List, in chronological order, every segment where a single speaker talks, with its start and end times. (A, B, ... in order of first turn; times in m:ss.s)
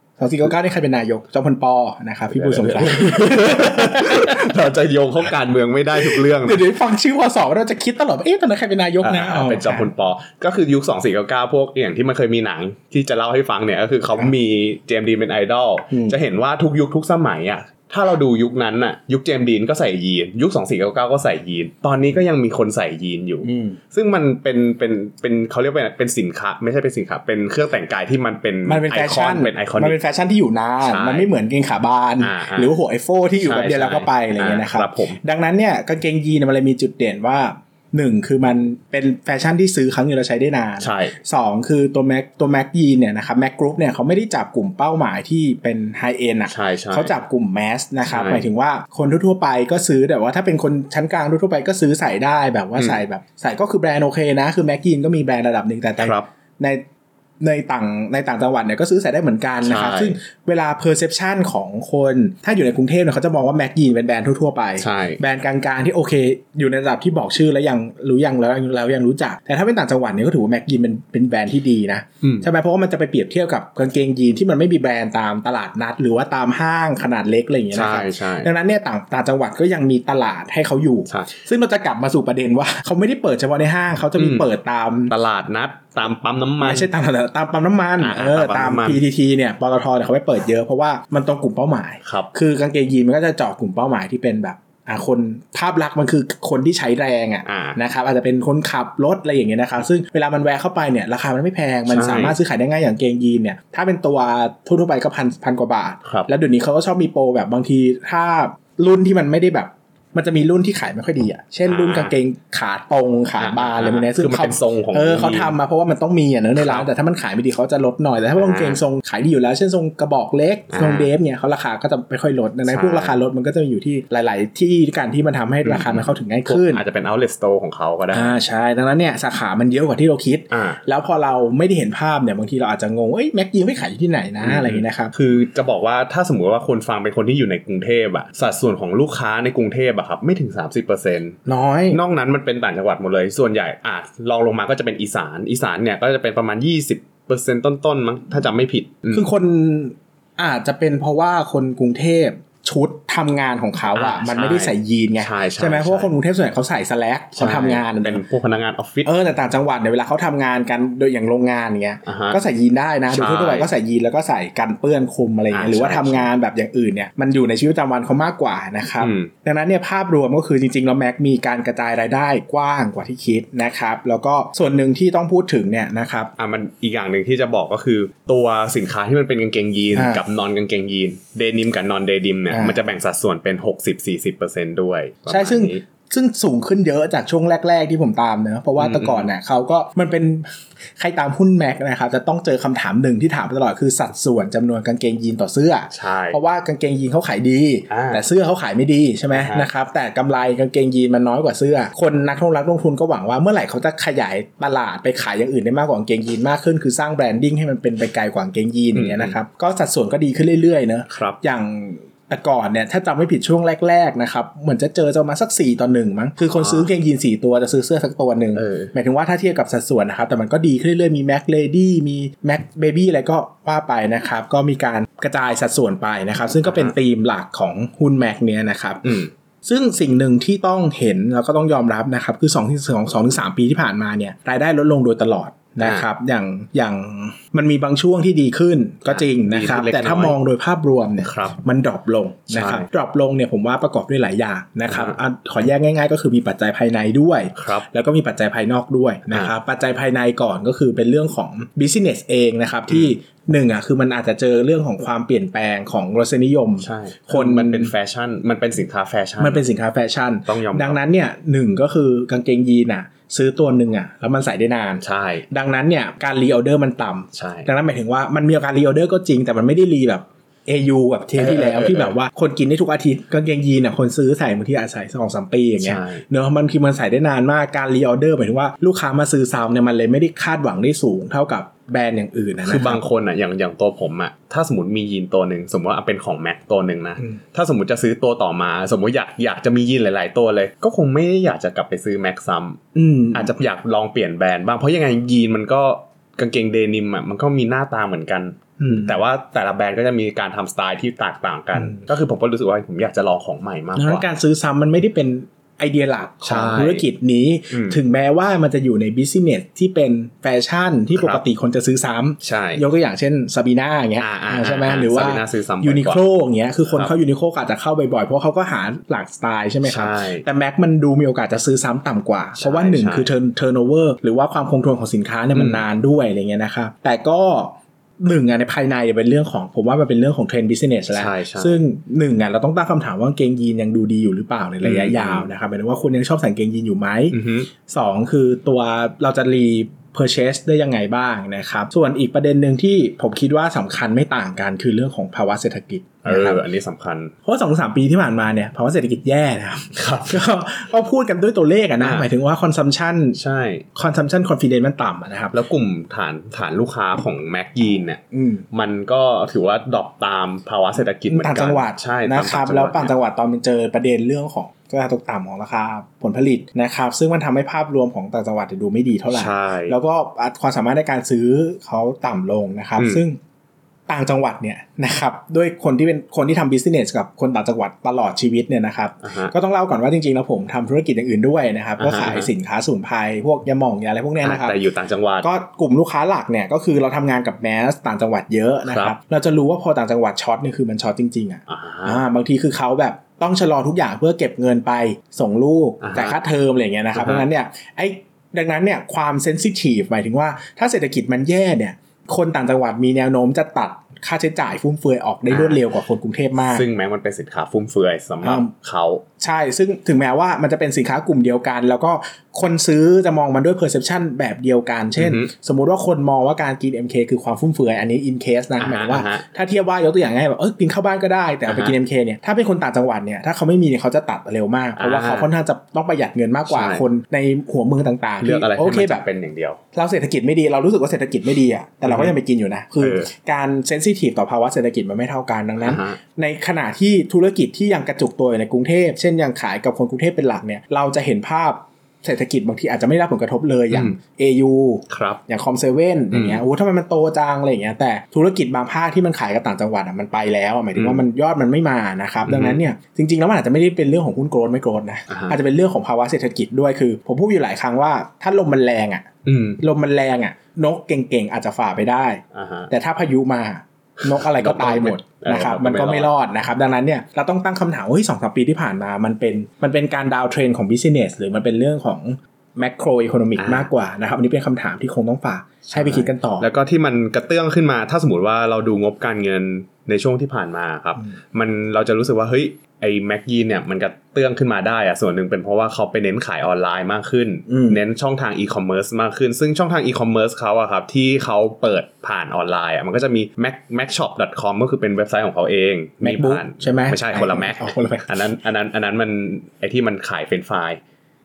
0:00.2-0:04.5 A
0:02.3-0:06.7 B
0:06.0-0:09.9 A
0:09.0-0:30.0 B
0:15.9-0:16.2 A
0:23.4-0:23.8 A
0:28.7-0:56.8 A
0:30.8-0:31.3 B
0:32.2-0:32.8 B
0:33.4-0:35.2 B
0:40.8-0:41.2 B
0:46.5-0:47.1 B
0:48.1-0:48.5 B
0:52.8-0:53.0 B
0:56.0-0:56.3 B
0:57.4-1:25.1 A
0:59.6-1:00.2 B
1:04.8-1:05.2 B
1:12.2-1:12.5 B
1:17.7-1:18.5 B
1:21.1-1:21.3 B
1:24.2-1:24.5 B
1:25.1-1:26.9 B
1:26.6-2:06.8 A
1:28.0-1:29.0 B
1:32.0-1:32.3 B
1:37.5-1:37.8 B
1:41.9-1:42.4 B
1:46.0-1:46.3 B
1:51.7-1:52.1 B
1:53.4-1:55.6 B
1:56.6-1:56.9 B
1:58.4-1:58.8 B
2:00.7-2:01.1 B
2:02.7-2:03.2 B
2:05.6-2:08.4 B
2:08.1-2:15.1 A
2:10.5-2:10.8 B
2:14.4-2:21.4 B
2:21.5-2:22.0 A
2:21.9-2:29.3 B
2:29.1-2:38.2 A
2:33.9-2:36.1 B
2:37.4-2:39.1 B
2:39.0-2:56.3 A
2:42.0-2:42.4 B
2:43.1-2:43.7 B
2:45.5-2:46.3 B
2:49.0-2:49.3 B
2:56.4-3:05.8 B
3:00.0-3:00.2 A
3:02.5-3:02.8 A
3:05.3-4:17.9 A
3:08.8-3:09.3 B
3:15.9-3:16.4 B
3:17.9-3:18.2 B
3:19.3-3:19.7 B
3:28.9-3:29.4 B
3:31.1-3:31.4 B
3:36.5-3:36.9 B
3:38.6-3:38.9 B
3:46.6-3:46.9 B
3:49.0-3:49.3 B
3:59.1-4:00.4 B
4:01.2-4:01.6 B
4:02.5-4:02.9 B
4:04.9-4:05.2 B
4:07.6-4:07.9 B
4:16.8-4:19.6 B
4:19.4-4:43.0 A
4:20.5-4:21.0 B
4:25.0-4:25.5 B
4:27.3-4:27.7 B
4:31.4-4:32.2 B
4:35.8-4:36.2 B
4:42.6-5:04.2 B
4:53.0-4:53.6 A
4:58.8-4:59.2 A
5:01.8-5:02.0 A
5:04.0-5:46.6 A
5:06.4-5:07.1 B
5:07.7-5:08.0 B
5:11.2-5:11.4 B
5:12.4-5:12.8 B
5:14.2-5:16.2 B
5:19.8-5:20.4 B
5:22.6-5:23.3 B
5:25.5-5:25.8 B
5:31.1-5:31.8 B
5:34.8-5:35.5 B
5:37.3-5:37.7 B
5:46.2-5:47.3 B
5:47.4-5:53.4 A
5:49.9-5:50.4 B
5:52.0-5:52.3 B
5:53.4-5:53.9 B
5:54.0-5:55.6 A
5:55.5-5:58.2 B
5:58.3-5:58.6 A
5:58.7-6:03.1 B
6:01.3-6:13.4 A
6:09.3-6:10.0 B
6:14.1-6:24.8 A
6:19.2-6:19.5 B
6:22.0-6:22.5 B
6:24.4-6:25.5 B
6:25.4-6:46.9 A
6:28.9-6:29.2 B
6:31.7-6:32.2 B
6:36.0-6:36.4 B
6:37.2-6:37.5 B
6:45.5-6:45.8 B
6:46.7-6:49.2 B
6:48.4-6:48.7 A
6:49.4-7:09.2 A
6:55.2-6:55.5 B
6:58.8-6:59.4 B
7:01.7-7:02.0 B
7:05.0-7:05.5 B
7:06.7-7:07.0 B
7:08.4-7:09.8 B
7:09.9-7:39.3 A
7:12.1-7:12.3 B
7:13.0-7:13.3 B
7:15.8-7:16.2 B
7:23.9-7:24.2 B
7:25.1-7:25.4 B
7:26.3-7:26.6 B
7:31.0-7:31.2 B
7:32.5-7:32.8 B
7:35.3-7:35.6 B
7:39.4-7:39.8 B
7:39.8-7:56.7 A
7:42.5-7:42.9 B
7:44.2-7:46.3 B
7:53.6-7:53.9 B
7:55.9-8:21.0 B
8:07.7-8:08.0 A
8:16.2-8:18.3 A